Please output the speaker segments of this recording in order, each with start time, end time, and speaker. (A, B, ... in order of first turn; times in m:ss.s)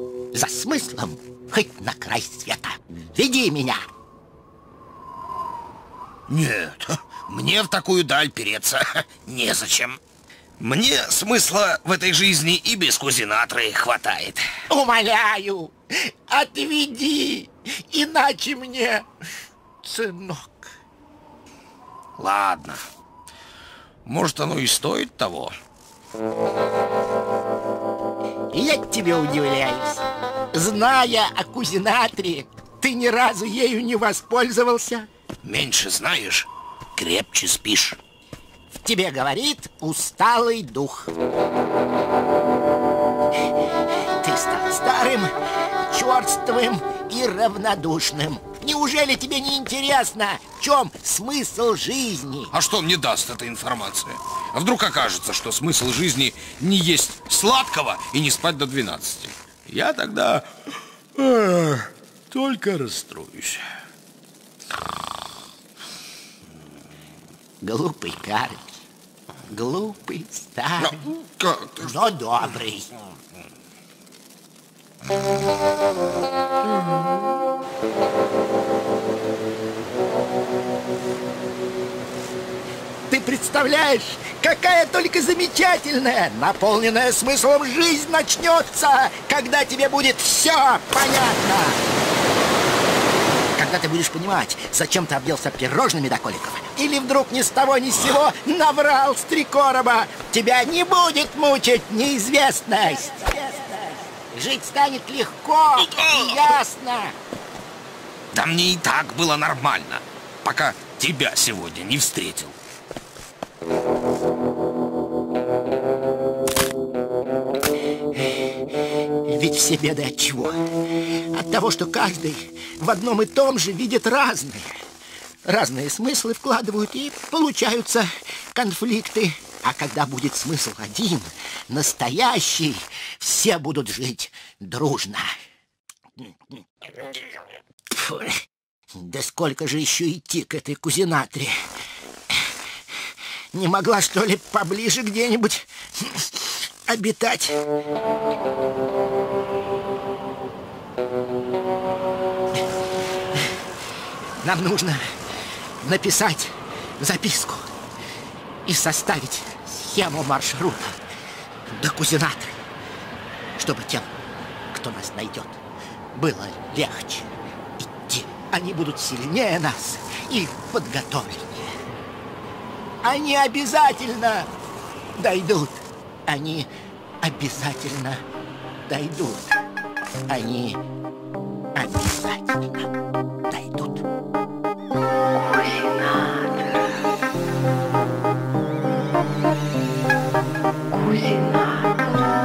0:00.3-0:03.9 A
0:06.3-0:10.0 B
0:10.6-0:14.5 B
0:14.7-0:19.1 A
0:19.8-0:20.7 A
0:22.2-0:22.8 B
0:24.0-0:25.6 B
0:28.5-0:35.1 A
0:35.4-0:38.0 B
0:38.8-0:41.1 A
0:44.2-0:45.3 A
0:45.9-0:52.5 A
0:52.5-1:00.5 B
1:01.2-1:03.6 B
1:07.6-1:08.8 A
1:09.5-1:11.0 A
1:10.8-1:12.1 B
1:11.8-1:12.9 A
1:23.1-1:31.8 A
1:33.6-1:47.2 A
1:45.8-1:46.4 B
1:48.3-1:52.6 B
1:59.3-2:04.7 A
2:05.4-2:15.4 A
2:16.2-2:16.6 A
2:17.9-2:18.4 A
2:19.0-2:21.5 A
2:23.5-2:27.6 A
2:34.4-2:35.0 A
2:35.8-2:37.7 A
2:38.7-2:41.0 A
2:41.7-2:42.6 A
2:43.6-2:44.1 A
2:44.7-2:45.6 A
2:46.2-2:51.8 A
2:53.0-2:54.5 A
2:55.2-2:56.7 A
2:57.2-2:58.2 A
2:58.9-2:59.5 A
3:00.3-3:00.8 A
3:01.8-3:02.9 A